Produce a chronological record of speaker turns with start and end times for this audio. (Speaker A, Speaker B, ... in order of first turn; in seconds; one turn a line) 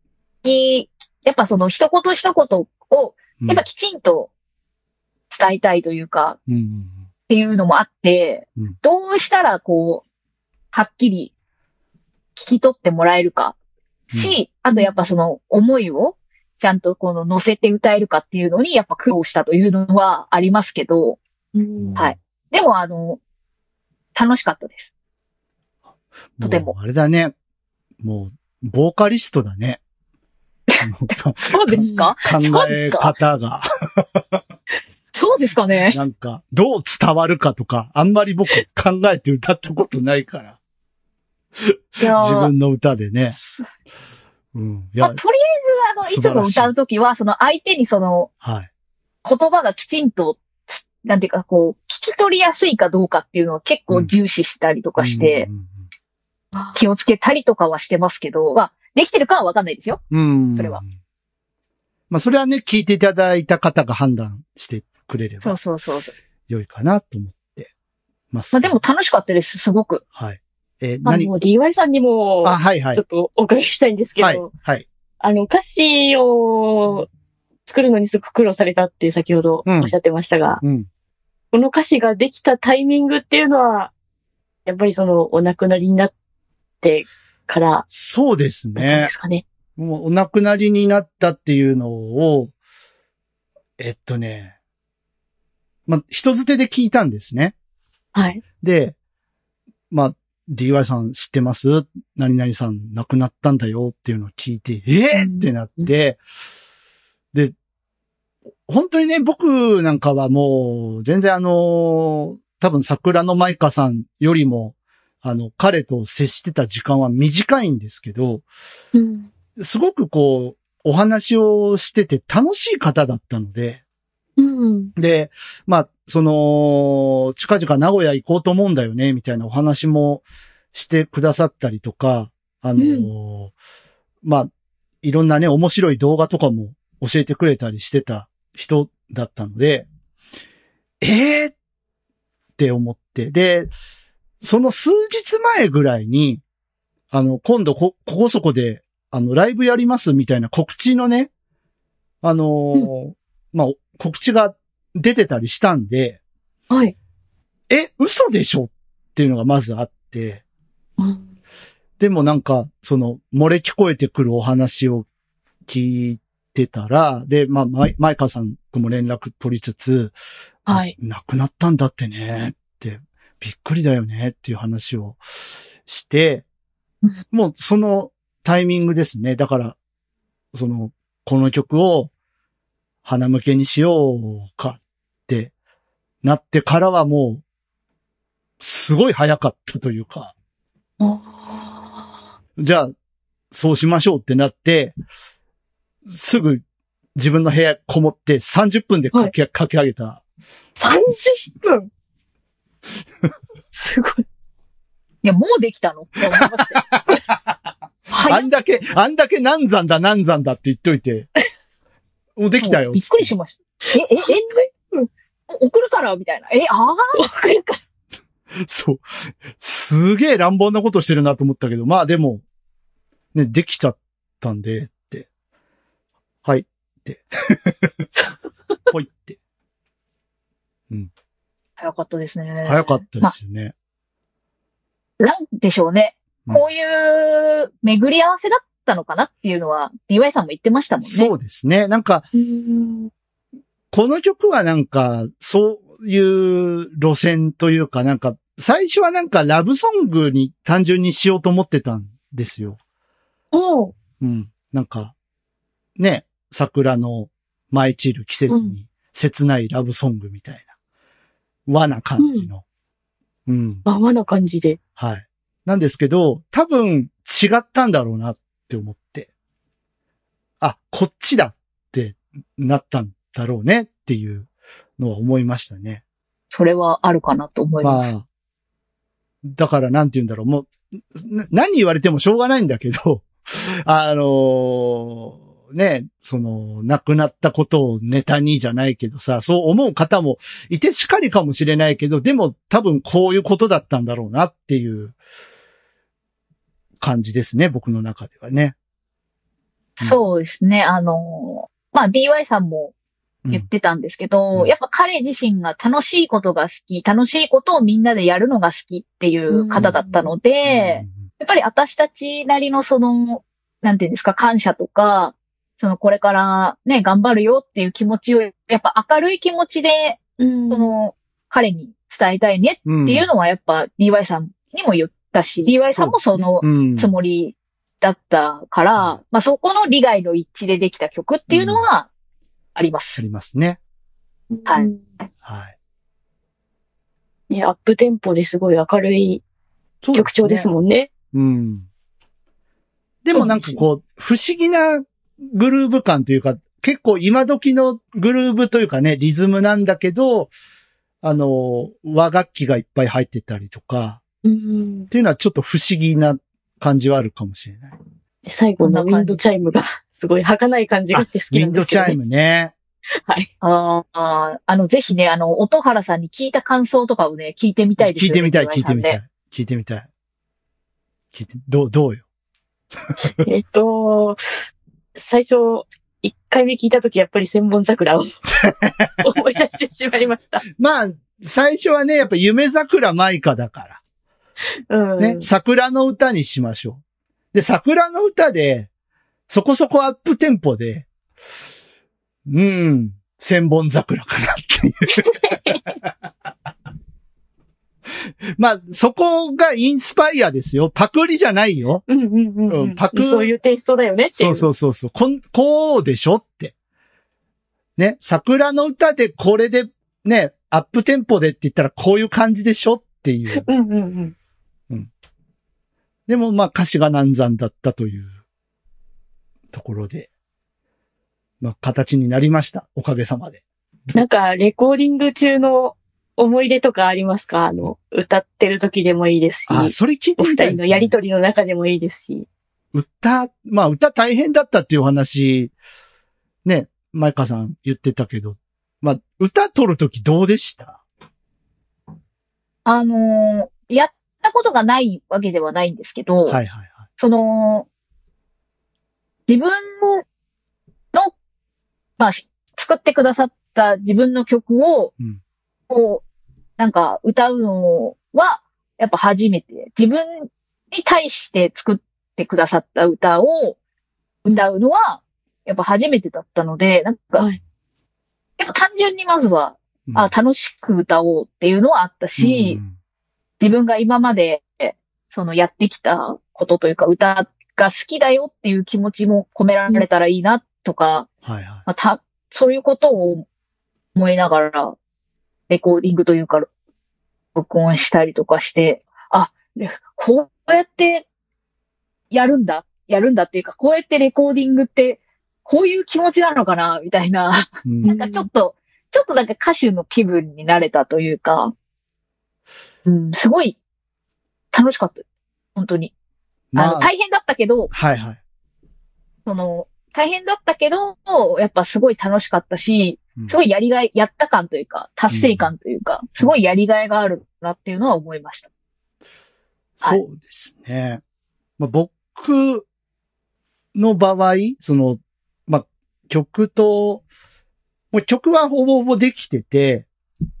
Speaker A: 0.4-4.3
Speaker B: 3.4-3.6
Speaker A: 5.3-6.4
Speaker B: 6.5-7.0
Speaker A: 7.3-10.0
Speaker A: 10.7-11.3
Speaker A: 12.3-13.5
Speaker B: 14.1-14.3
Speaker A: 14.1-21.2
Speaker C: 21.5-22.0
Speaker B: 21.8-22.1
Speaker A: 22.0-23.2
Speaker A: 24.1-24.9
Speaker B: 26.4-27.3
Speaker A: 26.4-26.7
Speaker B: 28.0-29.8
Speaker B: 30.8-33.6
Speaker A: 31.5-33.1
Speaker C: 31.8-32.1
Speaker A: 35.1-36.0
Speaker B: 35.9-40.5
Speaker B: 41.6-43.4
Speaker A: 42.0-42.5
Speaker A: 43.3-43.7
Speaker B: 44.5-45.2
Speaker A: 45.0-48.3
Speaker B: 46.0-46.7
Speaker B: 48.4-48.7
Speaker A: 49.2-55.5
Speaker B: 55.0-55.9
Speaker A: 56.7-60.0
Speaker B: 60.1-60.9
Speaker A: 60.5-60.8
Speaker B: 62.1-65.5
Speaker A: 65.4-66.1
Speaker B: 66.5-67.7
Speaker B: 68.3-68.8
Speaker A: 68.5-70.0
Speaker B: 70.1-71.3
Speaker C: 71.0-74.5
Speaker B: 72.4-73.0
Speaker B: 74.2-74.8
Speaker C: 75.2-77.1
Speaker C: 77.7-80.6
Speaker B: 79.7-79.9
Speaker B: 80.6-80.9
Speaker C: 81.5-83.9
Speaker C: 84.7-86.1
Speaker C: 86.8-87.8
Speaker B: 87.9-89.1
Speaker C: 88.8-89.4
Speaker B: 89.8-92.5
Speaker B: 93.8-94.5
Speaker B: 95.9-97.5
Speaker C: 98.1-98.4
Speaker B: 98.6-99.0
Speaker B: 99.9-106.2
Speaker C: 105.1-105.9
Speaker B: 108.7-118.4
Speaker C: 118.9-119.3
Speaker B: 119.6-123.8
Speaker C: 124.4-124.9
Speaker B: 125.0-133.5
Speaker C: 132.8-133.1
Speaker B: 134.2-134.5
Speaker B: 135.0-139.8
Speaker B: 141.0-141.5
Speaker B: 142.6-143.7
Speaker B: 144.4-146.4
Speaker B: 147.1-151.3
Speaker B: 152.2-156.2
Speaker B: 157.7-160.4
Speaker C: 161.0-161.2
Speaker B: 162.0-165.1
Speaker B: 165.7-170.1
Speaker C: 170.7-170.9
Speaker B: 170.7-175.2
Speaker B: 175.8-176.4
Speaker B: 177.3-179.8
Speaker B: 180.5-182.1
Speaker B: 183.0-185.5
Speaker B: 186.2-187.4
Speaker B: 188.6-190.3
Speaker C: 191.0-192.1
Speaker B: 192.6-192.9
Speaker B: 193.5-194.9
Speaker B: 196.1-196.6
Speaker B: 197.2-200.2
Speaker C: 200.8-201.9
Speaker B: 200.9-201.4
Speaker C: 203.7-204.2
Speaker A: 205.2-206.9
Speaker B: 206.4-207.2
Speaker A: 208.1-208.5
Speaker B: 208.2-211.3
Speaker B: 212.4-213.3
Speaker A: 212.6-214.7
Speaker C: 213.9-215.0
Speaker A: 215.5-217.2
Speaker C: 217.1-217.8
Speaker B: 218.6-222.4
Speaker B: 223.3-225.3
Speaker B: 226.4-227.5
Speaker B: 228.9-229.4
Speaker A: 231.8-233.3
Speaker B: 232.6-233.7
Speaker A: 235.2-241.3
Speaker B: 241.0-242.2
Speaker C: 242.3-243.1
Speaker B: 243.9-252.8
Speaker C: 253.5-253.9
Speaker B: 254.2-255.1
Speaker B: 256.0-260.7
Speaker C: 258.5-258.7
Speaker B: 261.7-262.6
Speaker C: 262.2-262.5
Speaker B: 263.5-263.8
Speaker C: 263.9-264.8
Speaker B: 265.0-269.3
Speaker B: 270.6-274.5
Speaker B: 275.0-276.0
Speaker A: 276.5-278.1
Speaker B: 277.8-278.2
Speaker B: 279.4-295.1
Speaker B: 297.0-298.7
Speaker A: 300.0-302.9
Speaker A: 303.5-320.2
Speaker C: 309.5-310.3
Speaker B: 310.6-311.2
Speaker C: 320.4-320.9
Speaker A: 320.7-332.1
Speaker B: 322.9-323.3
Speaker B: 325.9-327.1
Speaker B: 331.5-331.8
Speaker A: 332.7-333.2
Speaker B: 333.2-333.8
Speaker C: 334.5-335.1
Speaker B: 335.4-335.7
Speaker C: 337.5-339.4
Speaker B: 340.0-340.7
Speaker C: 340.1-341.1
Speaker B: 341.3-341.9
Speaker B: 343.2-350.5
Speaker C: 343.3-343.8
Speaker B: 351.2-354.2
Speaker C: 354.4-355.1
Speaker B: 355.1-358.0
Speaker C: 358.4-362.2
Speaker A: 358.8-359.4
Speaker B: 361.1-362.7
Speaker C: 363.2-363.5
Speaker A: 363.6-369.2
Speaker B: 368.0-370.1
Speaker B: 371.3-372.2
Speaker C: 373.4-378.4
Speaker B: 378.5-379.2
Speaker C: 379.2-380.6
Speaker B: 380.8-384.0
Speaker C: 384.9-385.5
Speaker B: 385.2-387.0
Speaker B: 387.5-388.9
Speaker B: 389.5-391.1
Speaker B: 392.5-395.9
Speaker C: 395.5-395.8
Speaker B: 398.6-402.0
Speaker C: 402.1-404.7
Speaker B: 402.7-403.5
Speaker B: 404.3-406.7
Speaker B: 408.0-413.7
Speaker C: 413.6-414.3
Speaker B: 416.3-418.3
Speaker B: 419.7-420.3
Speaker B: 421.6-424.2
Speaker C: 424.1-432.4
Speaker B: 429.7-431.1
Speaker B: 432.9-435.7
Speaker B: 436.6-441.0
Speaker A: 442.8-446.6
Speaker B: 446.5-447.0
Speaker A: 447.2-447.9
Speaker A: 449.5-450.2
Speaker A: 452.2-455.1
Speaker A: 455.9-456.2
Speaker A: 456.8-463.8
Speaker A: 464.4-467.5
Speaker A: 468.6-472.8
Speaker B: 472.4-472.9
Speaker A: 473.6-481.3
Speaker B: 481.4-481.8
Speaker A: 481.9-483.4
Speaker A: 484.1-484.9
Speaker A: 485.7-486.7
Speaker A: 487.5-491.2
Speaker A: 492.3-501.7
Speaker B: 497.8-498.1
Speaker C: 498.1-498.5
Speaker A: 503.1-503.8
Speaker A: 504.7-505.2
Speaker A: 505.8-506.1
Speaker B: 506.7-507.1
Speaker A: 506.8-507.9
Speaker B: 507.9-508.4
Speaker A: 509.4-518.7
Speaker B: 515.3-515.7
Speaker B: 520.0-521.2
Speaker B: 521.8-522.9
Speaker B: 523.9-527.2
Speaker B: 528.1-530.1